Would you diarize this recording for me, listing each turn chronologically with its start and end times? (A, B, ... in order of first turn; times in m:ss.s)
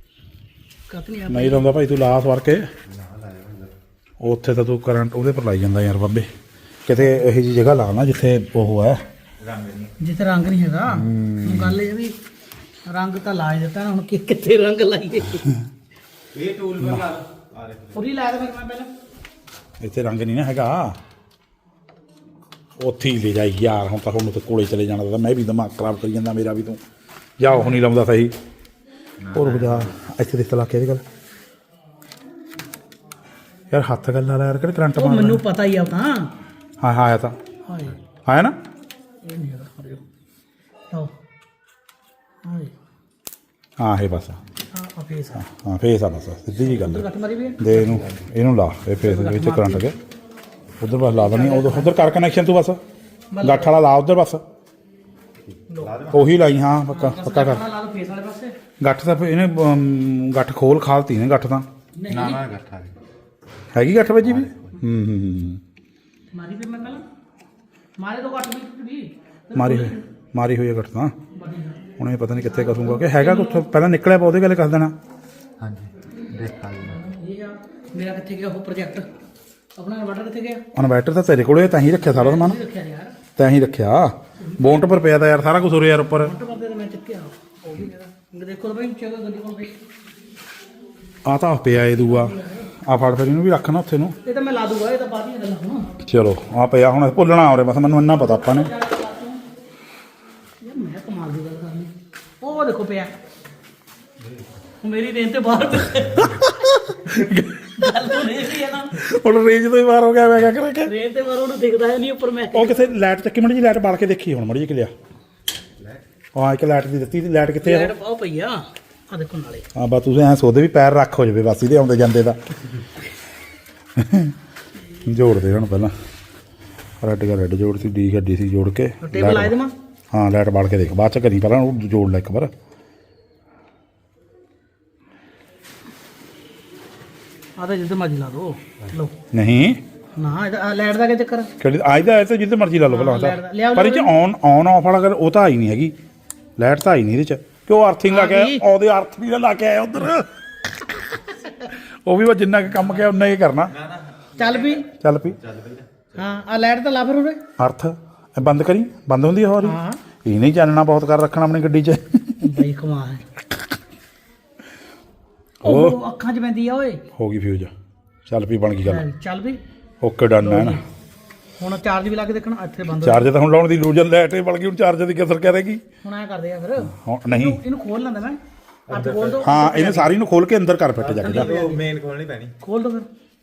0:00.9-0:01.7 A
0:01.3-0:02.7 B
0:02.9-0:03.7 C
0:04.2-0:06.3 B
0:06.9-0:09.0 B
0:09.4-0:09.9 C
0:10.0-0:12.2 A
0:10.9-0:11.8 B
0:12.9-0:15.5 A
0:16.3-0:18.1 C
0:16.8-0:17.1 B
0:17.9-0:18.9 A
0:19.8-0:21.0 B
0:22.8-0:26.8 B
0:27.4-0:28.3 B
0:27.5-0:27.8 A
0:29.2-0:29.9 C
0:29.3-0:31.0 B
0:33.7-0:35.4 B
0:35.0-0:36.3 A
0:36.8-0:37.4 B
0:37.7-0:38.0 A
0:38.3-0:38.6 B
0:39.2-0:40.0 A
0:42.4-0:42.7 A
0:43.8-0:44.4 B
0:44.7-0:45.4 A
0:45.4-0:47.1 B
0:46.6-0:48.0 A
0:47.6-0:50.0 B
0:49.0-0:49.8 A
0:50.8-0:52.8 B
0:51.2-0:51.9 A
0:53.3-0:53.7 A
0:53.4-0:54.4 B
0:55.4-0:56.4 C
0:55.7-0:56.0 A
0:56.1-0:57.6 B
0:56.9-0:58.5 A
0:58.8-1:01.7 B
1:02.0-1:02.4 A
1:02.1-1:03.0 C
1:03.7-1:05.6 B
1:04.3-1:04.6 C
1:06.3-1:07.0 A
1:08.0-1:10.0 A
1:09.5-1:11.1 B
1:11.3-1:11.8 A
1:12.0-1:15.0 B
1:12.4-1:13.7 A
1:15.6-1:17.0 C
1:16.9-1:19.1 A
1:19.8-1:20.6 A
1:20.7-1:22.6 B
1:22.1-1:23.2 A
1:23.4-1:26.3 B
1:24.4-1:24.8 A
1:26.2-1:29.8 A
1:31.2-1:34.2 B
1:32.0-1:32.7 A
1:34.2-1:35.9 A
1:36.0-1:38.7 B
1:38.4-1:39.4 A
1:40.6-1:43.1 A
1:44.8-1:46.5 A
1:46.4-1:48.1 B
1:47.8-1:49.0 A
1:49.0-1:50.9 B
1:50.8-1:52.8 A
1:52.5-1:54.9 B
1:56.4-1:58.0 B
1:57.6-1:59.7 A
1:59.8-2:02.4 B
2:04.0-2:04.4 B
2:05.0-2:05.9 B
2:07.0-2:09.6 B
2:09.0-2:09.7 A
2:10.1-2:12.5 B
2:17.6-2:19.2 A
2:19.3-2:19.8 B
2:20.2-2:21.5 A
2:21.6-2:26.0 B
2:22.9-2:24.1 A
2:26.6-2:30.3 B
2:28.1-2:28.6 A
2:31.7-2:33.8 B
2:33.7-2:36.4 C
2:34.4-2:34.9 A
2:35.0-2:35.4 B
2:36.2-2:37.4 A
2:37.6-2:42.4 B
2:39.6-2:40.0 A
2:42.4-2:43.2 A
2:45.6-2:46.0 B
2:45.6-2:47.0 A
2:47.2-2:47.7 B
2:48.3-2:49.0 B
2:48.9-2:49.6 A
2:50.0-2:50.8 B
2:50.4-2:50.8 A
2:51.6-2:53.3 A
2:53.0-2:55.8 B
2:56.0-3:00.2 A
2:56.8-2:57.6 B
2:58.9-2:59.4 C
2:59.4-3:01.6 B
3:01.0-3:02.6 C
3:01.2-3:01.8 A
3:02.6-3:03.1 A